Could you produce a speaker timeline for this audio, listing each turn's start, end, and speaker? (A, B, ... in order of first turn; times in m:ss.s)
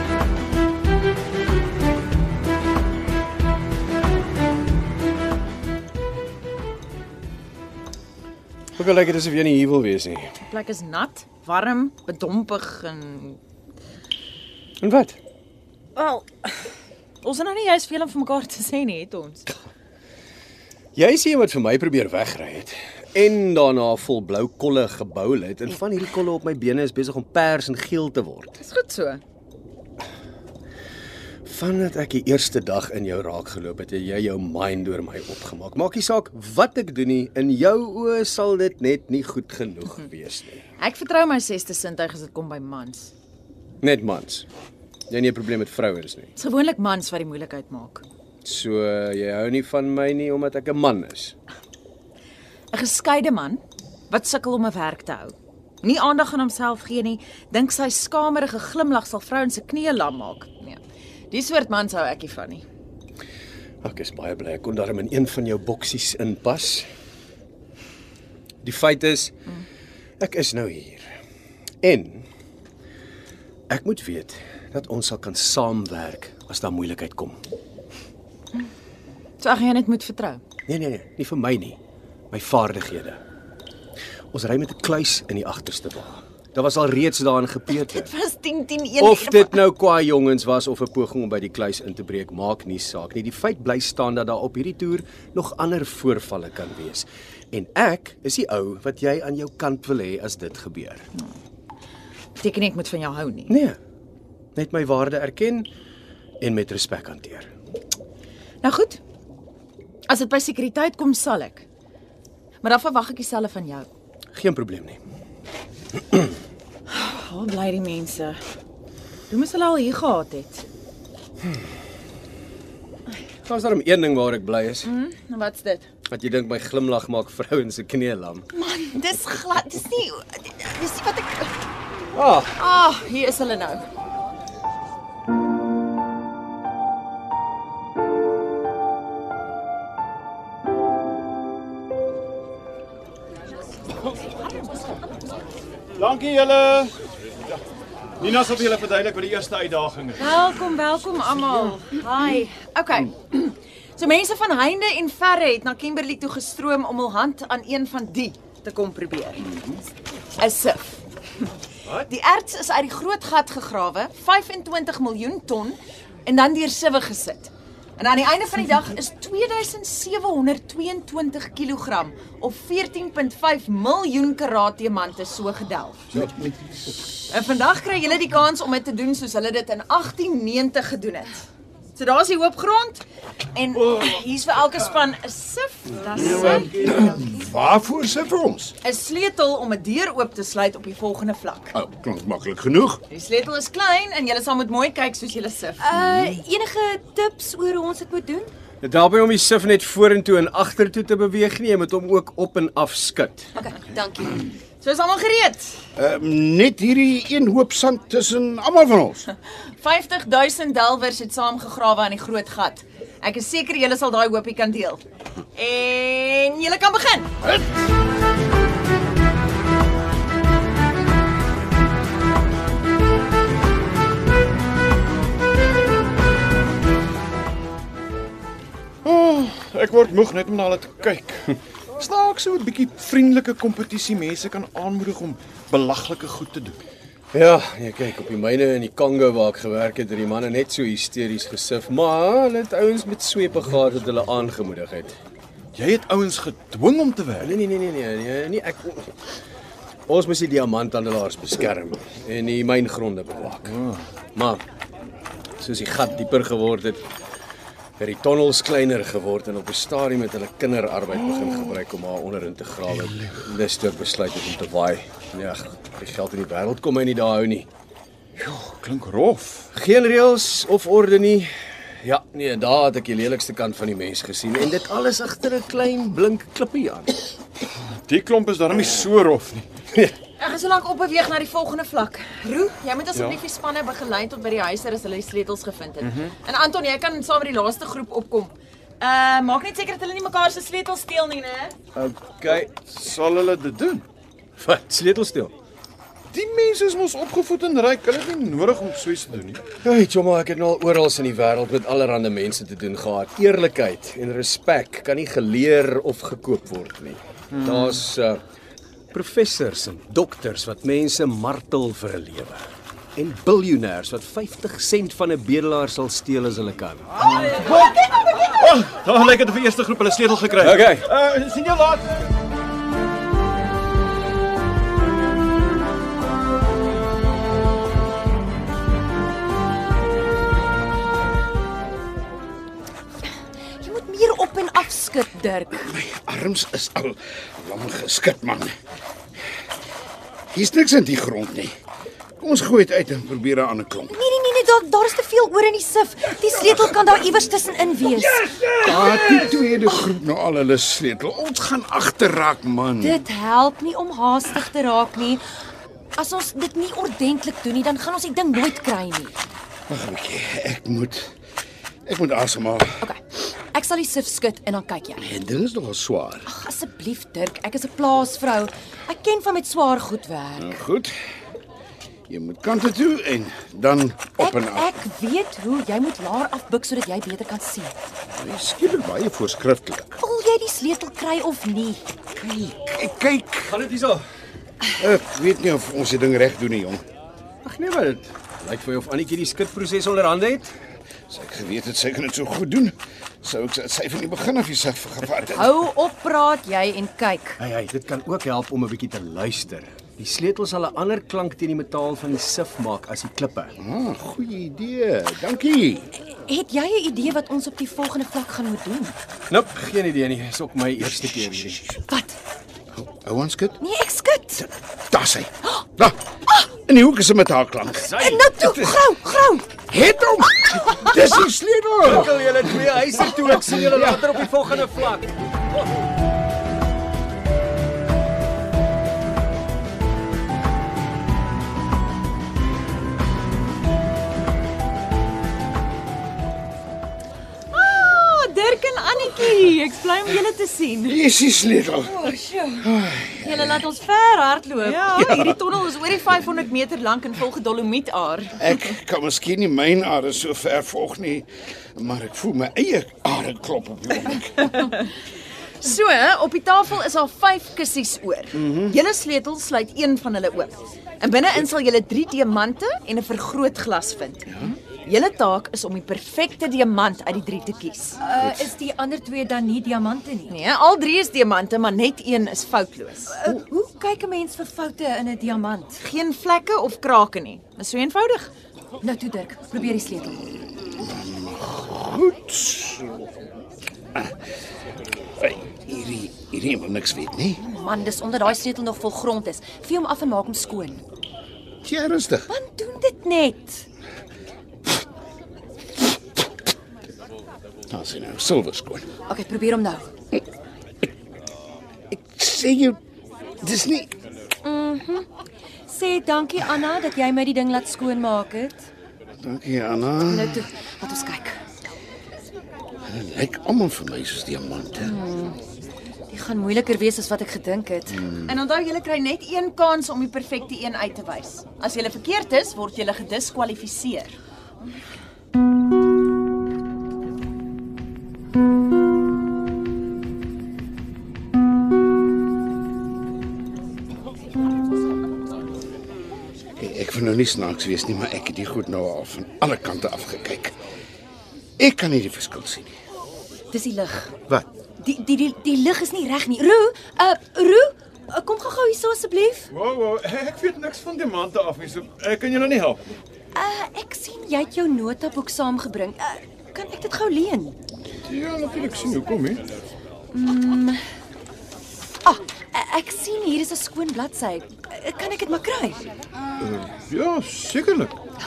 0:08.8-0:10.3 A
0:10.4-0:13.4 B
0:14.8-0:15.2 A
0:16.0-0:16.5 B
0:17.2-0:19.5 B
0:21.0-0:28.6 A
0:28.6-0:29.2 B
0:31.4-0:40.6 A
0:40.8-0:43.1 B
0:43.8-0:44.5 A
0:45.1-0:46.3 A
0:46.4-0:48.0 B
0:48.4-0:51.4 A
0:52.7-1:00.8 B
1:01.3-1:02.6 B
1:03.8-1:06.9 A
1:08.6-1:09.5 A
1:10.2-1:11.1 A
1:11.8-1:12.2 A
1:13.7-1:17.4 A
1:19.4-1:20.4 B
1:20.7-1:21.8 A
1:22.3-1:23.2 A
1:24.3-1:28.1 A
1:27.7-1:29.6 B
1:29.0-1:41.1 A
1:42.4-1:43.5 B
1:43.5-1:43.8 A
1:44.6-1:45.7 A
1:46.4-1:47.5 A
1:48.6-1:49.0 B
1:50.1-1:51.6 B
1:52.6-1:53.9 B
1:54.3-1:55.0 A
1:56.9-1:58.4 B
1:59.3-2:00.6 B
2:03.4-2:04.9 A
2:04.8-2:05.9 B
2:06.1-2:08.5 A
2:08.5-2:11.6 B
2:12.2-2:12.5 A
2:12.6-2:13.8 B
2:26.0-2:26.9 C
2:28.2-2:30.2 C
2:30.2-2:39.5 B
2:40.4-2:41.0 B
2:42.0-2:56.1 B
2:56.1-2:57.0 D
2:57.3-3:06.9 B
3:06.7-3:08.8 D
3:08.8-3:11.7 B
3:11.7-3:13.0 D
3:13.1-3:15.9 B
3:15.8-3:18.5 E
3:18.8-3:23.5 A
3:23.6-3:24.4 E
3:24.8-3:25.8 B
3:26.0-3:29.3 D
3:29.8-3:35.0 B
3:35.5-3:37.3 B
3:49.0-3:56.8 C
3:57.3-4:05.2 A
4:05.8-4:07.6 C
4:07.4-4:09.1 A
4:10.1-4:13.8 A
4:13.7-4:14.0 C
4:14.4-4:14.6 A
4:15.6-4:17.0 A
4:18.0-4:27.7 A
4:28.4-4:29.7 C
4:29.7-4:37.2 A
4:38.1-4:39.7 C
4:40.4-4:51.8 B
4:46.0-4:46.3 C
4:52.0-4:52.7 A
4:52.5-4:54.1 C
4:54.6-4:55.5 A
4:56.3-4:59.7 C
4:59.8-5:08.4 A
5:09.1-5:12.6 A
5:13.2-5:17.6 A
5:17.2-5:22.1 C
5:20.6-5:21.1 A
5:33.8-5:35.9 E
5:35.8-5:38.8 D
5:40.5-5:41.7 D
5:42.4-5:44.2 D
5:44.1-5:50.1 E
5:48.8-5:53.2 D
5:53.0-5:55.4 E
5:56.2-5:59.4 E
5:59.9-6:01.3 D
6:02.1-6:03.0 D
6:03.7-6:05.2 E
6:05.2-6:06.5 D
6:06.5-6:10.7 E
6:10.6-6:11.1 D
6:12.3-6:15.0 D
6:14.4-6:17.9 E
6:18.3-6:20.2 D
6:20.2-6:22.0 E
6:22.4-6:23.8 D
6:23.6-6:24.2 A
6:24.9-6:27.0 D
6:27.6-6:30.7 A
6:31.3-6:35.8 D
6:35.6-6:37.6 E
6:37.6-6:43.8 A
6:43.8-6:46.1 D
6:46.3-6:49.2 E
6:49.5-6:51.8 A
6:52.1-6:52.4 E
6:52.9-6:53.8 D
6:53.8-6:54.7 E
6:55.1-6:56.2 D
6:56.8-6:59.1 D
6:58.0-6:58.5 A
6:58.1-6:59.7 E
6:59.8-7:02.9 D
7:02.0-7:05.4 A
7:03.6-7:04.3 D
7:17.7-7:21.2 B
7:21.1-7:23.8 D
7:22.2-7:22.8 B
7:23.4-7:28.6 B
7:25.0-7:25.6 D
7:28.6-7:34.9 D
7:34.7-7:35.0 B
7:35.8-7:44.5 B
7:38.5-7:39.0 D
7:45.0-7:48.2 B
7:48.2-7:50.5 E
7:50.5-7:53.4 B
7:53.3-7:56.0 E
7:56.0-7:58.5 B
7:59.0-8:00.5 E
8:00.8-8:03.2 D
8:05.4-8:07.6 D
8:07.6-8:11.0 E
8:11.8-8:12.5 D
8:12.5-8:13.8 E
8:17.9-8:19.1 D
8:19.3-8:20.1 E
8:22.1-8:23.0 D
8:23.6-8:24.1 D
8:24.6-8:25.3 E
8:25.9-8:28.8 E
8:29.4-8:30.6 D
8:30.2-8:31.6 E
8:33.0-8:35.2 D
8:35.0-8:35.6 E
8:36.3-8:38.2 E
8:38.2-8:38.5 D
8:38.4-8:44.4 B
8:56.8-9:00.8 D
9:01.8-9:02.9 D
9:03.7-9:04.4 E
9:05.0-9:09.7 E
9:09.7-9:13.0 C
9:13.6-9:17.8 E
9:18.3-9:19.6 C
9:20.3-9:21.0 E
9:22.2-9:26.1 E
9:26.6-9:28.2 C